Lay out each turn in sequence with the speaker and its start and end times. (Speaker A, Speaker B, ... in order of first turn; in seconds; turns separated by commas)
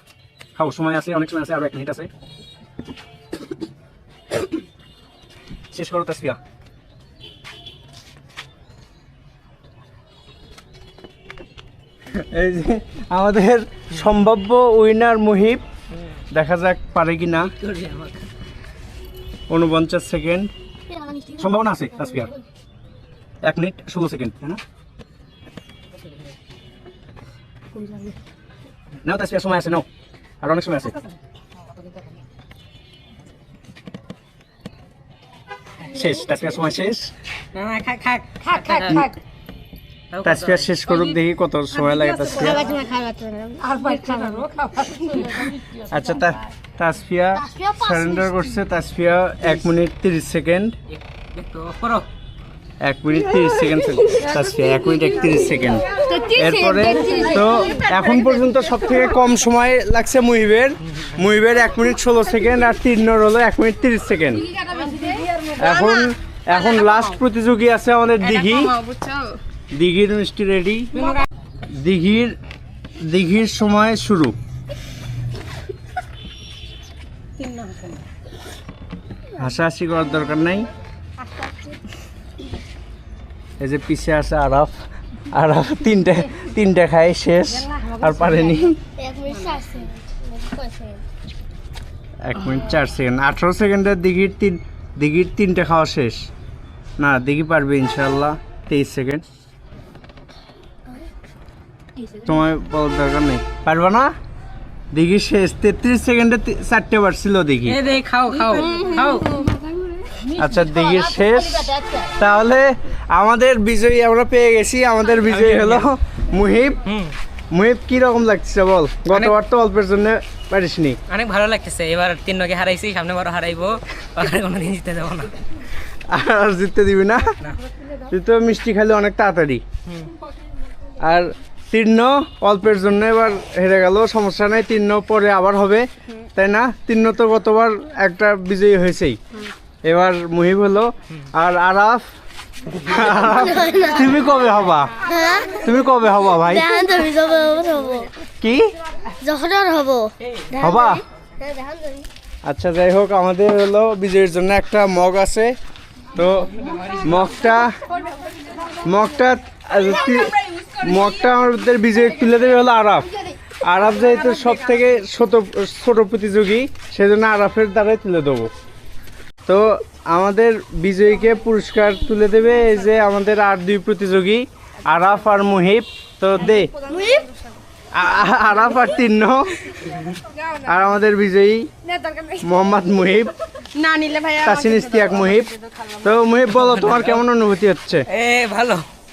Speaker A: 0.6-2.1, Speaker A: 5.7-6.4, Speaker A: 12.1-15.6, Speaker A: 16.3-17.5, Speaker B: 17.6-18.2, Speaker A: 19.5-20.5, Speaker C: 20.9-22.4, Speaker A: 21.4-22.3, Speaker A: 23.4-24.6, Speaker B: 27.8-28.1, Speaker A: 29.1-29.9, Speaker A: 30.4-31.0, Speaker A: 35.9-37.1, Speaker B: 37.5-39.2, Speaker A: 38.7-39.1, Speaker B: 40.1-41.2, Speaker A: 40.2-42.7, Speaker B: 41.8-42.6, Speaker C: 42.2-45.3, Speaker B: 43.6-45.9, Speaker A: 45.9-50.8, Speaker C: 47.5-48.4, Speaker B: 51.3-52.1, Speaker A: 52.8-64.5, Speaker B: 55.9-58.0, Speaker C: 56.1-58.4, Speaker B: 64.6-65.6, Speaker D: 64.8-65.1, Speaker A: 65.6-68.8, Speaker D: 66.5-67.1, Speaker D: 68.2-69.4, Speaker A: 69.7-71.2, Speaker B: 71.0-71.2, Speaker A: 71.7-72.4, Speaker A: 73.0-74.4, Speaker B: 77.4-77.9, Speaker A: 79.4-80.7, Speaker A: 83.6-84.8, Speaker A: 85.3-88.8, Speaker B: 87.7-88.5, Speaker C: 89.0-91.0, Speaker A: 92.2-96.3, Speaker A: 97.0-99.2, Speaker A: 102.2-104.1, Speaker A: 104.9-107.8, Speaker B: 107.7-109.6, Speaker D: 108.6-109.2, Speaker B: 110.2-112.1, Speaker A: 110.3-116.9, Speaker B: 115.3-115.8, Speaker B: 116.9-117.1, Speaker A: 117.5-121.0, Speaker B: 121.1-125.3, Speaker A: 126.1-127.4, Speaker A: 128.0-129.6, Speaker A: 131.0-139.2, Speaker A: 139.8-142.1, Speaker A: 142.7-146.7, Speaker C: 143.2-144.3, Speaker C: 145.0-145.7, Speaker C: 146.4-148.1, Speaker A: 148.4-148.8, Speaker C: 149.2-152.1, Speaker A: 150.6-151.0, Speaker A: 152.5-155.6, Speaker A: 156.1-157.8, Speaker A: 158.8-168.5, Speaker A: 169.5-176.7, Speaker D: 176.7-177.3, Speaker A: 177.9-179.7, Speaker A: 180.6-181.7, Speaker B: 181.9-182.3, Speaker A: 182.4-183.4, Speaker D: 183.7-186.0, Speaker A: 184.4-188.1, Speaker B: 188.1-188.9